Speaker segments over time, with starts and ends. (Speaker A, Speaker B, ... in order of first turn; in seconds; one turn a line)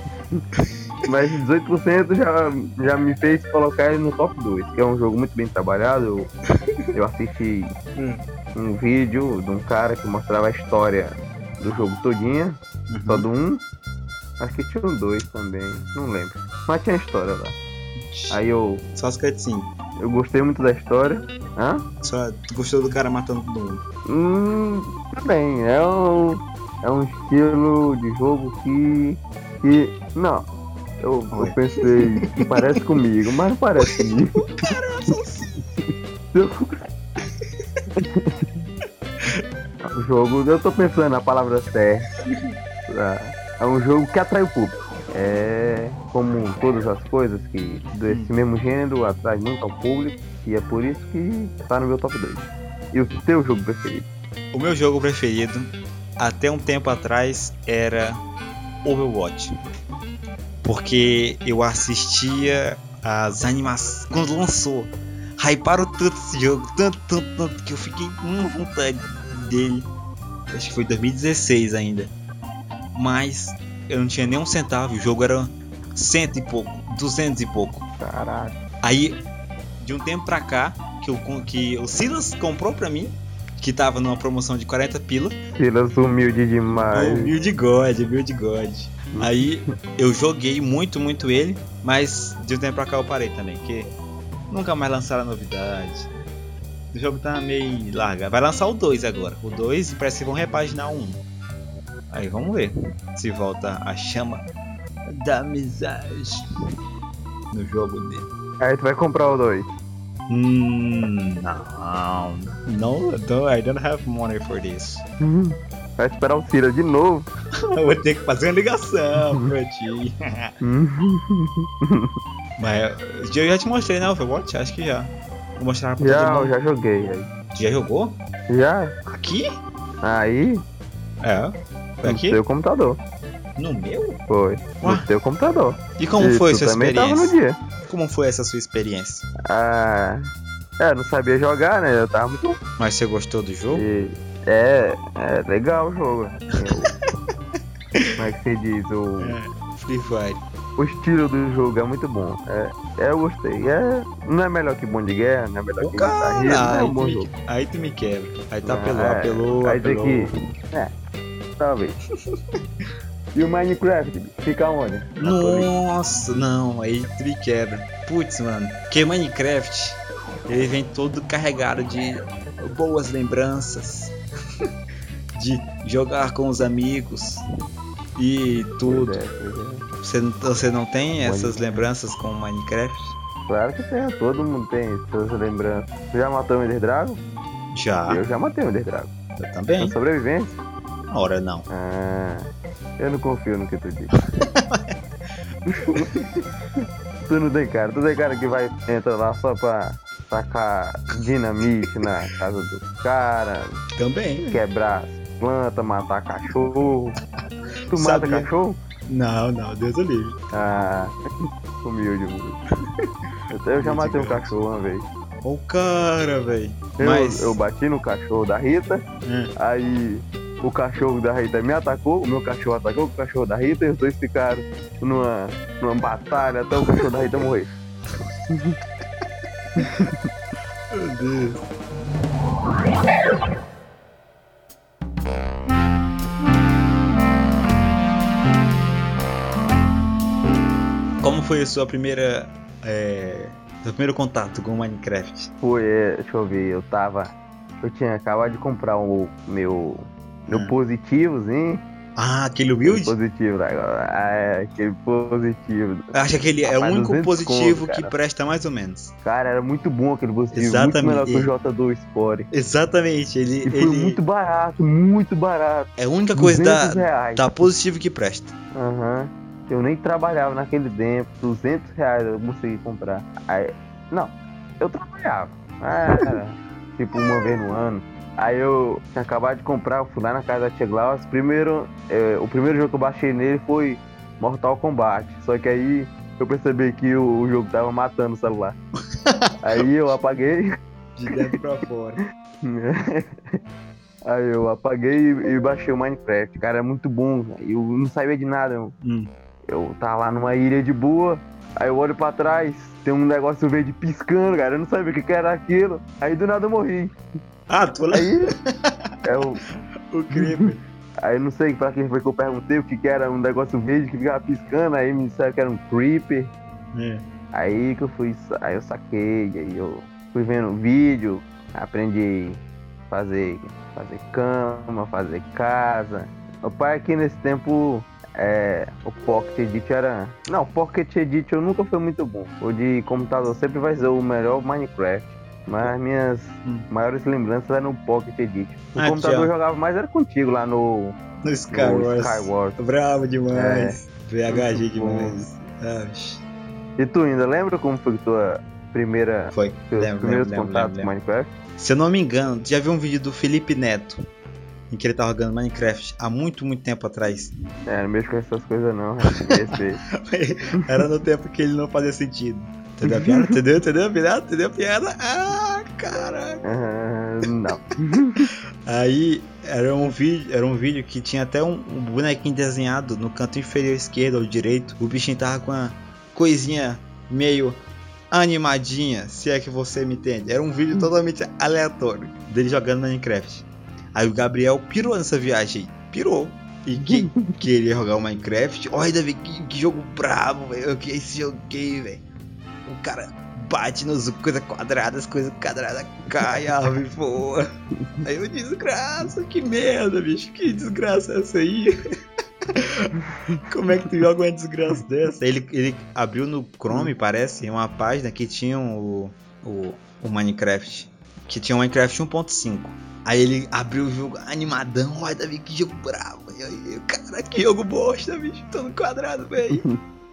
Speaker A: 1.1-6.3
Speaker A: 6.9-7.8
Speaker B: 8.0-8.2
Speaker A: 8.5-13.6
Speaker B: 12.9-13.3
Speaker A: 14.4-17.6
Speaker B: 18.0-18.4
Speaker A: 18.3-18.9
Speaker B: 18.9-19.7
Speaker A: 20.0-21.9
Speaker B: 22.0-23.8
Speaker A: 24.1-30.5
Speaker A: 31.0-34.4
Speaker B: 31.3-32.8
Speaker B: 34.5-35.6
Speaker A: 36.3-36.8
Speaker A: 38.0-38.5
Speaker A: 39.8-42.1
Speaker A: 42.9-54.1
Speaker B: 48.1-48.3
Speaker B: 54.5-58.2
Speaker B: 58.8-59.5
Speaker B: 60.6-69.9
Speaker B: 70.5-72.1
Speaker B: 72.9-77.8
Speaker A: 78.0-78.6
Speaker B: 78.8-79.2
Speaker B: 79.8-85.4
Speaker A: 85.5-87.3
Speaker B: 86.8-93.9
Speaker A: 89.1-89.5
Speaker B: 94.5-96.1
Speaker B: 96.9-101.2
Speaker B: 102.1-104.4
Speaker B: 105.1-106.5
Speaker B: 107.5-108.3
Speaker A: 108.6-109.7
Speaker B: 110.3-115.0
Speaker A: 115.2-117.3
Speaker B: 117.7-120.5
Speaker A: 119.2-119.5
Speaker A: 120.6-122.1
Speaker B: 122.6-126.5
Speaker A: 126.0-127.3
Speaker B: 127.5-128.2
Speaker A: 128.5-128.9
Speaker B: 129.1-129.6
Speaker A: 130.0-130.6
Speaker B: 131.2-132.4
Speaker A: 132.0-133.0
Speaker B: 133.6-134.2
Speaker A: 134.3-137.6
Speaker B: 134.8-135.1
Speaker B: 136.0-139.2
Speaker A: 139.4-140.3
Speaker A: 140.8-142.6
Speaker B: 142.8-143.8
Speaker A: 143.7-146.9
Speaker A: 148.2-149.4
Speaker B: 149.2-150.4
Speaker A: 150.8-157.3
Speaker B: 155.8-160.3
Speaker A: 158.6-160.9
Speaker A: 161.6-162.0
Speaker A: 163.3-165.7
Speaker B: 165.2-174.7
Speaker B: 175.3-177.4
Speaker B: 178.2-179.2
Speaker A: 178.8-179.8
Speaker B: 180.0-183.2
Speaker A: 181.2-181.8
Speaker A: 183.5-187.2
Speaker B: 187.7-188.2
Speaker A: 188.1-189.1
Speaker B: 189.4-189.9
Speaker A: 189.8-190.6
Speaker B: 191.1-191.7
Speaker A: 191.7-194.1
Speaker B: 194.2-195.0
Speaker A: 195.7-196.2
Speaker B: 195.9-196.2
Speaker A: 197.3-203.8
Speaker B: 204.0-204.6
Speaker A: 204.4-207.2
Speaker B: 207.9-208.5
Speaker A: 207.9-208.8
Speaker B: 209.1-210.4
Speaker A: 210.5-211.2
Speaker A: 211.8-212.6
Speaker A: 213.5-215.1
Speaker B: 213.7-214.5
Speaker B: 215.4-217.6
Speaker A: 217.0-219.0
Speaker B: 219.2-219.5
Speaker A: 219.6-227.7
Speaker A: 228.5-228.8
Speaker A: 229.8-230.2
Speaker B: 230.9-231.6
Speaker B: 241.2-245.5
Speaker A: 245.6-251.8
Speaker B: 252.2-253.2
Speaker A: 252.8-256.1
Speaker B: 256.1-259.1
Speaker A: 256.6-258.1
Speaker A: 259.2-262.5
Speaker B: 260.5-261.5
Speaker B: 262.5-264.2
Speaker A: 263.6-267.5
Speaker B: 266.0-268.5
Speaker A: 268.7-288.8
Speaker B: 289.1-289.9
Speaker A: 289.6-290.7
Speaker B: 291.1-292.2
Speaker A: 292.6-293.5
Speaker A: 294.2-298.9
Speaker B: 299.0-299.3
Speaker A: 299.7-307.1
Speaker B: 307.7-309.1
Speaker A: 308.1-308.5
Speaker A: 309.2-309.6
Speaker B: 310.1-310.8
Speaker A: 310.3-310.7
Speaker A: 311.2-316.5
Speaker B: 316.9-317.2
Speaker A: 317.5-341.2
Speaker B: 338.9-339.5
Speaker B: 341.4-346.4
Speaker A: 341.7-342.8
Speaker A: 343.5-345.5
Speaker A: 347.0-351.5
Speaker B: 349.5-351.1
Speaker B: 351.8-354.2
Speaker B: 354.9-357.5
Speaker A: 357.9-360.0
Speaker B: 359.3-366.6
Speaker A: 363.1-363.5
Speaker A: 366.6-368.5
Speaker B: 368.5-377.8
Speaker B: 378.3-392.2
Speaker A: 387.0-387.6
Speaker B: 392.9-397.7
Speaker B: 398.2-401.9
Speaker B: 402.7-403.1
Speaker B: 403.6-419.8
Speaker A: 419.7-420.0